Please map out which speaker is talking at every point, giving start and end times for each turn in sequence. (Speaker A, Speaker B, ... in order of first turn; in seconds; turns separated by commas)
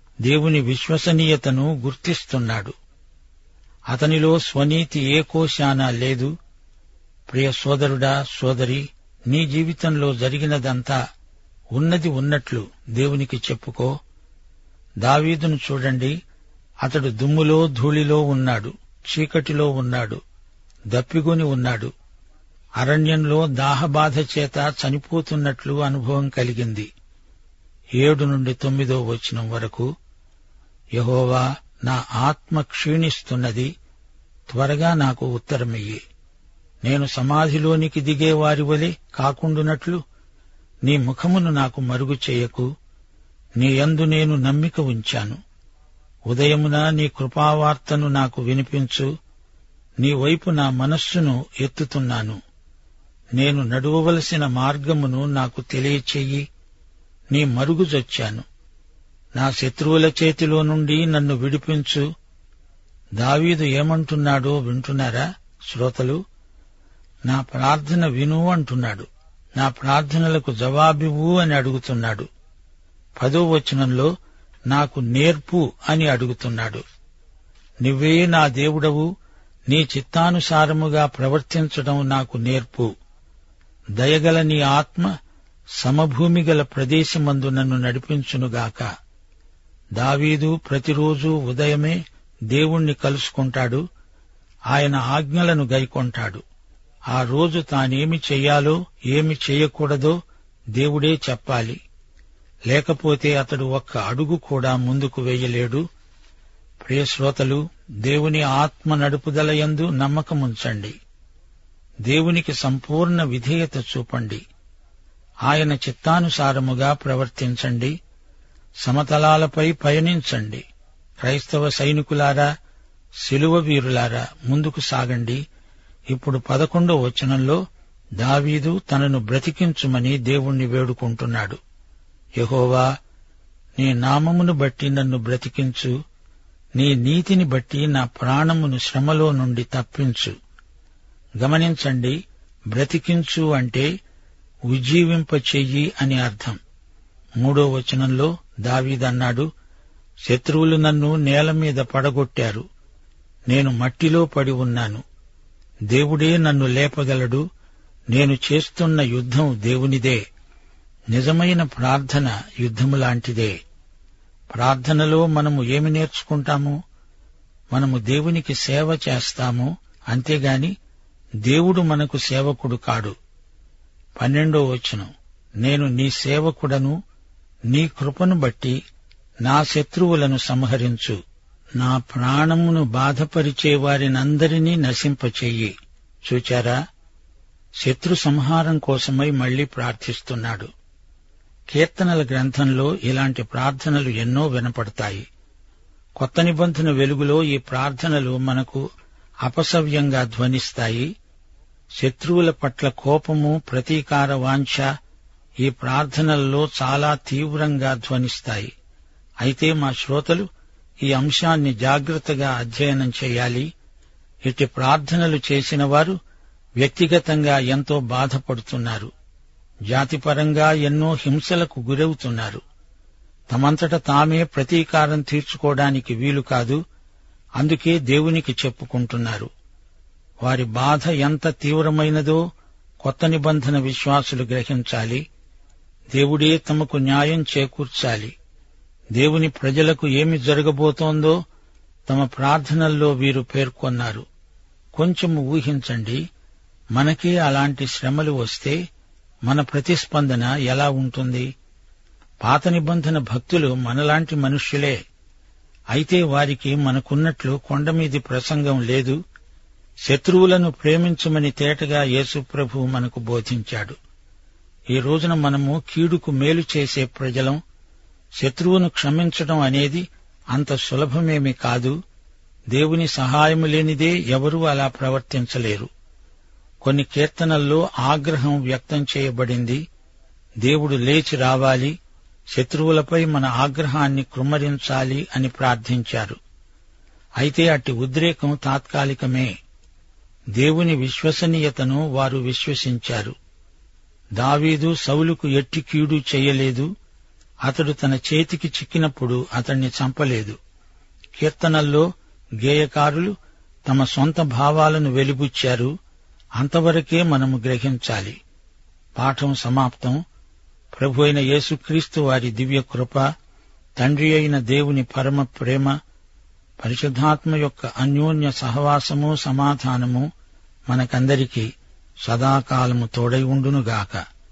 Speaker A: 0.2-2.8, Speaker A: 3.9-6.3, Speaker A: 7.3-11.0, Speaker A: 11.8-13.9, Speaker A: 15.0-16.1, Speaker A: 16.8-20.2, Speaker A: 20.9-21.9, Speaker A: 22.8-26.9, Speaker A: 28.0-29.9, Speaker A: 30.9-33.7, Speaker A: 34.5-36.0, Speaker A: 36.8-40.0, Speaker A: 40.8-42.7, Speaker A: 43.6-45.4, Speaker A: 46.3-49.1, Speaker A: 50.0-52.4, Speaker A: 53.4-56.5, Speaker A: 57.3-58.5, Speaker A: 59.4-62.1, Speaker A: 63.2-66.2, Speaker A: 67.3-72.3, Speaker A: 73.2-74.1, Speaker A: 74.7-76.8, Speaker A: 77.8-79.1, Speaker A: 79.7-82.9, Speaker A: 84.0-85.1, Speaker A: 85.8-88.9, Speaker A: 90.0-92.0, Speaker A: 92.5-93.8, Speaker A: 94.7-96.4, Speaker A: 97.1-100.2, Speaker A: 100.8-101.8, Speaker A: 102.7-105.8, Speaker A: 106.8-111.0, Speaker A: 112.1-114.4, Speaker A: 115.5-118.0, Speaker A: 118.8-120.6, Speaker A: 121.2-122.5, Speaker A: 123.2-125.4, Speaker A: 126.1-127.6, Speaker A: 128.2-131.6, Speaker A: 132.4-132.8, Speaker A: 133.8-135.9, Speaker A: 136.8-140.3, Speaker A: 141.4-142.2, Speaker A: 142.7-143.9, Speaker A: 144.7-146.6, Speaker A: 147.4-149.5, Speaker A: 150.3-152.6, Speaker A: 153.5-155.0, Speaker A: 155.9-157.4, Speaker A: 158.1-160.2, Speaker A: 161.1-163.6, Speaker A: 164.5-166.8, Speaker A: 167.7-170.7, Speaker A: 171.4-173.1, Speaker A: 174.2-175.1, Speaker A: 175.6-177.0, Speaker A: 177.7-178.8, Speaker A: 179.4-181.2, Speaker A: 181.8-185.7, Speaker A: 186.2-186.8, Speaker A: 187.8-190.7, Speaker A: 191.7-195.3, Speaker A: 196.2-198.8, Speaker A: 199.4-201.1, Speaker A: 202.0-204.9, Speaker A: 205.6-208.7, Speaker A: 209.4-210.5, Speaker A: 211.0-213.7, Speaker A: 214.4-216.2, Speaker A: 216.8-219.1, Speaker A: 219.9-222.6, Speaker A: 223.5-226.8, Speaker A: 227.6-229.5, Speaker A: 230.4-232.4, Speaker A: 233.0-235.2, Speaker A: 236.1-238.3, Speaker A: 239.2-241.4, Speaker A: 242.1-244.2, Speaker A: 244.9-246.2, Speaker A: 246.9-248.8, Speaker A: 249.4-251.5, Speaker A: 252.4-255.0, Speaker A: 255.9-259.2, Speaker A: 260.1-263.9, Speaker A: 264.9-267.6, Speaker A: 268.4-272.0, Speaker A: 272.7-275.9, Speaker A: 276.8-279.8, Speaker A: 280.6-281.9, Speaker A: 282.5-286.4, Speaker A: 287.4-289.5, Speaker A: 290.6-293.4, Speaker A: 294.4-296.9, Speaker A: 297.6-300.6, Speaker A: 301.4-302.1, Speaker A: 302.6-303.4, Speaker A: 303.9-305.9, Speaker A: 306.6-308.4, Speaker A: 309.2-310.2, Speaker A: 310.9-313.3, Speaker A: 314.0-315.9, Speaker A: 316.8-320.3, Speaker A: 320.9-321.7, Speaker A: 322.2-324.2